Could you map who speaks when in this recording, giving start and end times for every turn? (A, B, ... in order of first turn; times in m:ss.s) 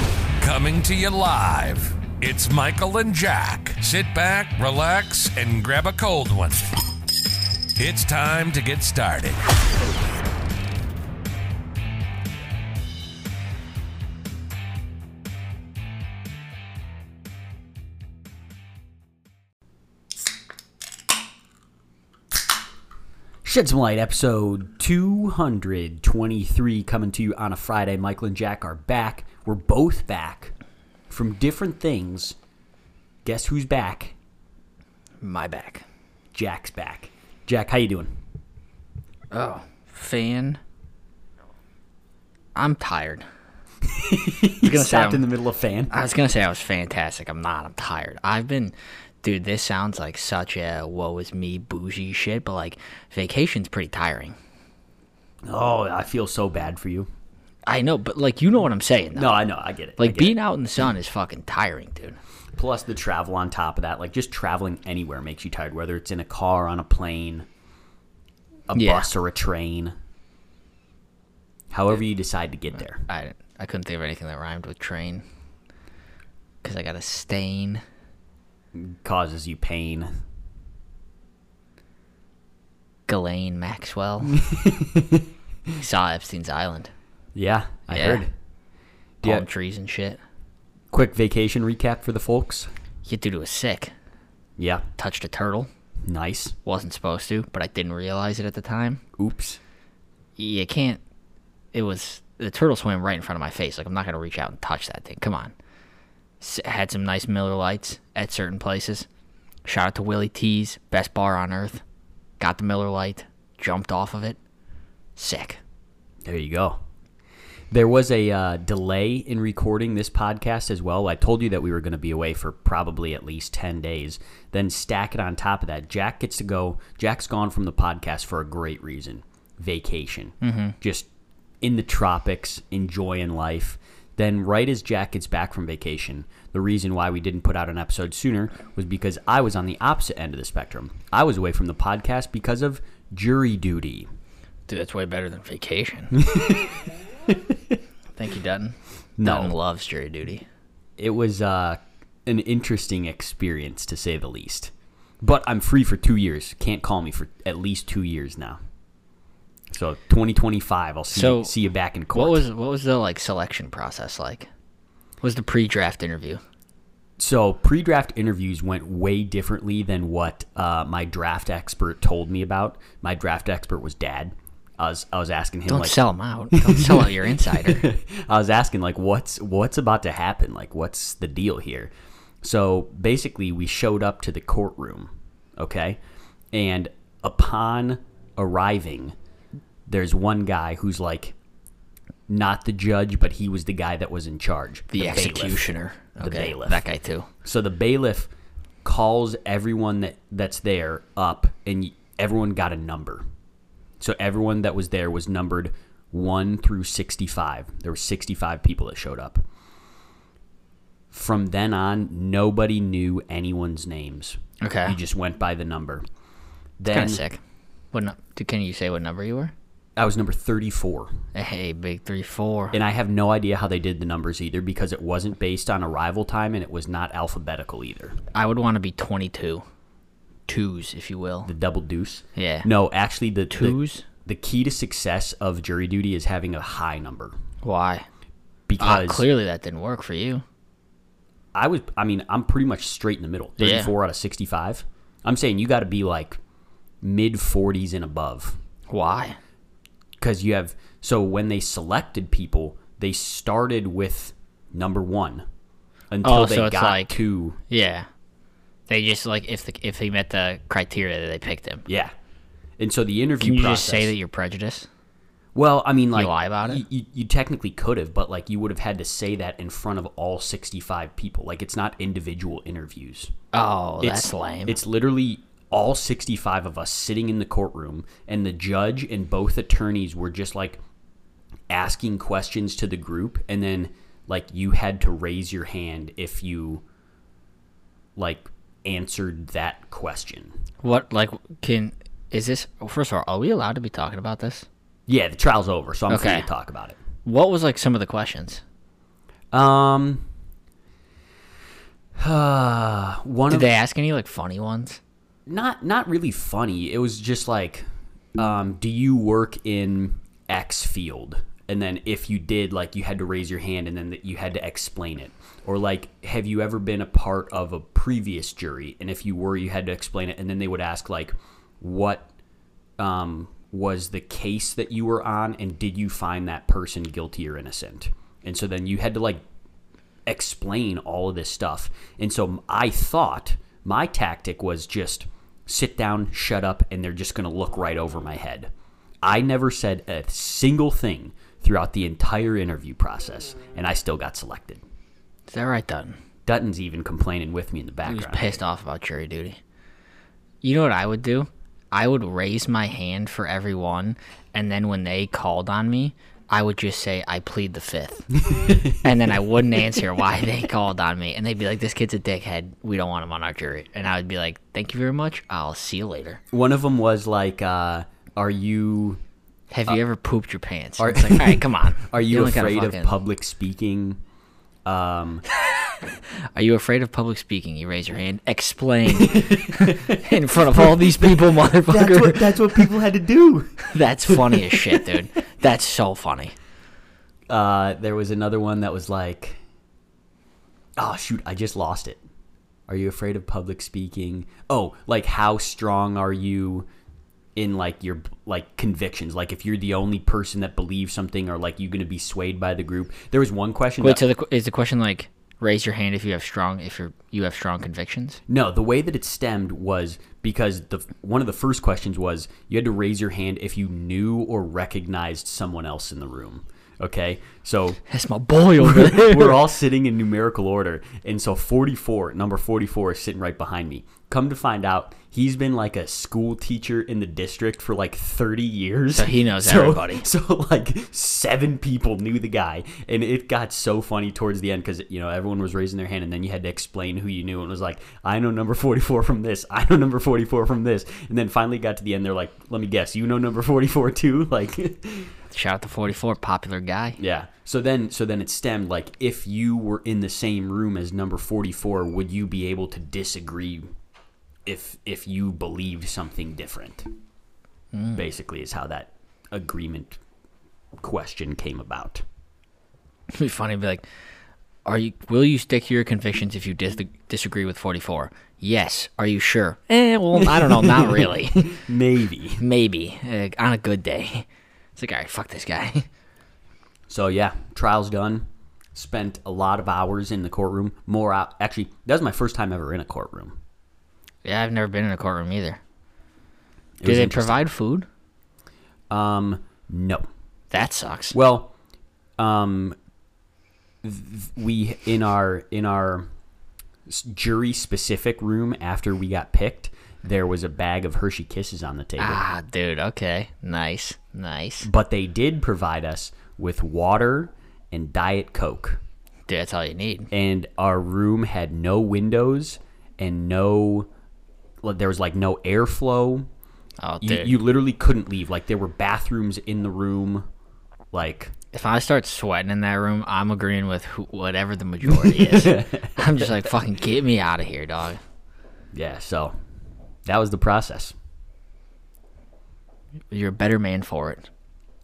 0:00.4-0:06.7 A
0:07.8-0:09.4 A
0:23.4-0:30.5 B
0:31.1-0:32.4 B
0:33.2-0:34.2 B
0:35.2-0:35.8 C
0:36.3-0:38.1 B
0:39.3-0:40.6 C
0:42.6-0:43.3 C
0:43.8-0:45.9 B
0:44.6-0:45.2 C
0:45.9-0:54.4 C
0:55.5-0:57.1 B
0:57.7-0:59.4 C
0:59.2-1:00.4 B
1:00.0-1:02.2 C
1:02.6-1:07.5 B
1:08.7-1:10.0 B
1:08.7-1:09.1 C
1:11.7-1:13.0 B
1:13.1-1:15.2 C
1:16.6-1:17.8 C
1:18.8-1:20.1 B
1:23.1-1:24.5 C
1:24.3-1:25.3 B
1:25.8-1:26.9 C
1:27.4-1:28.3 B
1:27.9-1:28.2 C
1:29.2-1:30.2 C
1:30.9-1:32.7 B
1:33.0-1:33.9 C
1:34.6-1:34.8 B
1:35.0-1:35.7 C
1:36.0-1:36.6 B
1:36.6-1:39.0 C
1:39.2-1:39.6 B
1:40.4-1:41.0 C
1:41.7-1:45.5 C
1:46.4-1:49.1 C
1:49.7-1:51.8 C
1:52.4-1:54.4 C
1:55.2-1:55.6 C
1:56.2-1:56.8 B
1:57.7-2:11.1 B
2:10.4-2:10.8 C
2:11.6-2:24.1 B
2:24.7-2:26.3 C
2:26.1-2:27.6 B
2:28.2-2:30.4 C
2:29.2-2:29.6 B
2:31.0-2:38.6 B
2:39.7-2:42.5 B
2:41.1-2:41.5 C
2:42.1-2:44.5 C
2:45.2-2:46.4 C
2:47.2-2:56.0 B
2:55.7-2:57.9 C
2:56.5-3:01.9 B
3:02.4-3:06.0 B
3:06.5-3:09.2 B
3:09.9-3:11.4 B
3:12.3-3:16.8 B
3:14.9-3:17.3 C
3:17.4-3:18.3 B
3:18.8-3:23.2 B
3:24.0-3:29.4 B
3:31.1-3:36.0 B
3:34.6-3:35.0 C
3:36.8-3:37.2 B
3:36.9-3:37.4 C
3:37.9-3:39.5 C
3:40.0-3:41.2 B
3:41.3-3:42.8 C
3:42.7-3:48.2 B
3:48.3-3:49.6 C
3:50.5-3:51.5 C
3:51.4-3:57.4 B
3:52.4-3:52.7 C
3:53.5-3:54.0 C
3:57.6-3:58.1 C
3:58.7-3:59.2 B
3:58.8-4:00.4 C
4:01.6-4:06.4 B
4:03.6-4:03.9 C
4:07.0-4:08.6 B
4:08.9-4:09.4 C
4:10.2-4:15.4 B
4:16.1-4:17.6 B
4:16.2-4:18.1 C
4:18.9-4:21.8 C
4:21.9-4:22.2 B
4:22.8-4:24.1 B
4:23.4-4:24.9 C
4:25.6-4:33.3 B
4:26.2-4:26.8 C
4:33.5-4:34.8 C
4:34.0-4:40.8 B
4:41.7-4:46.8 B
4:48.2-4:50.5 B
4:50.8-4:54.7 C
4:55.1-4:57.0 B
4:56.1-4:56.5 C
4:57.2-4:58.6 C
4:59.5-5:00.3 B
5:02.2-5:03.7 B
5:03.5-5:05.0 C
5:05.5-5:22.3 B
5:23.0-5:29.4 B
5:30.3-5:38.7 B
5:39.2-5:44.8 B
5:45.5-5:46.2 C
5:46.5-5:48.6 B
5:48.1-5:49.6 C
5:50.6-6:06.4 C
5:58.4-5:59.1 B
6:06.5-6:09.2 B
6:09.7-6:13.1 C
6:11.0-6:14.2 B
6:14.8-6:15.4 B
6:16.0-6:22.9 C
6:19.1-6:25.2 B
6:23.8-6:26.6 C
6:27.5-6:29.6 B
6:31.0-6:32.2 B
6:32.9-6:36.9 B
6:37.6-6:44.2 B
6:44.0-6:48.4 C
6:48.5-6:58.0 B
6:58.1-6:59.7 C
6:58.8-7:25.4 B
7:09.1-7:10.2 C
7:25.5-7:27.2 C
7:27.2-7:33.9 B
7:34.7-7:37.1 B
7:37.9-7:38.2 C
7:38.2-7:40.2 B
7:41.0-7:42.2 B
7:43.3-7:44.0 C
7:44.9-7:51.8 C
7:50.3-7:52.6 B
7:52.6-7:56.1 C
7:57.1-8:03.6 B
8:04.4-8:05.8 C
8:07.0-8:07.6 B
8:07.0-8:08.1 C
8:09.1-8:10.3 B
8:10.7-8:11.4 C
8:11.3-8:11.7 B
8:12.4-8:13.0 B
8:14.0-8:16.3 B
8:17.1-8:22.4 B
8:22.2-8:24.9 C
8:24.8-8:29.0 B
8:29.5-8:30.3 C
8:30.3-8:34.1 B
8:34.8-8:36.5 B
8:37.0-8:37.6 C
8:37.2-8:40.5 B
8:41.1-8:41.5 B
8:41.7-8:48.2 C
8:45.0-8:46.6 B
8:48.9-8:49.6 B
8:50.3-8:51.2 B
8:53.3-8:54.5 C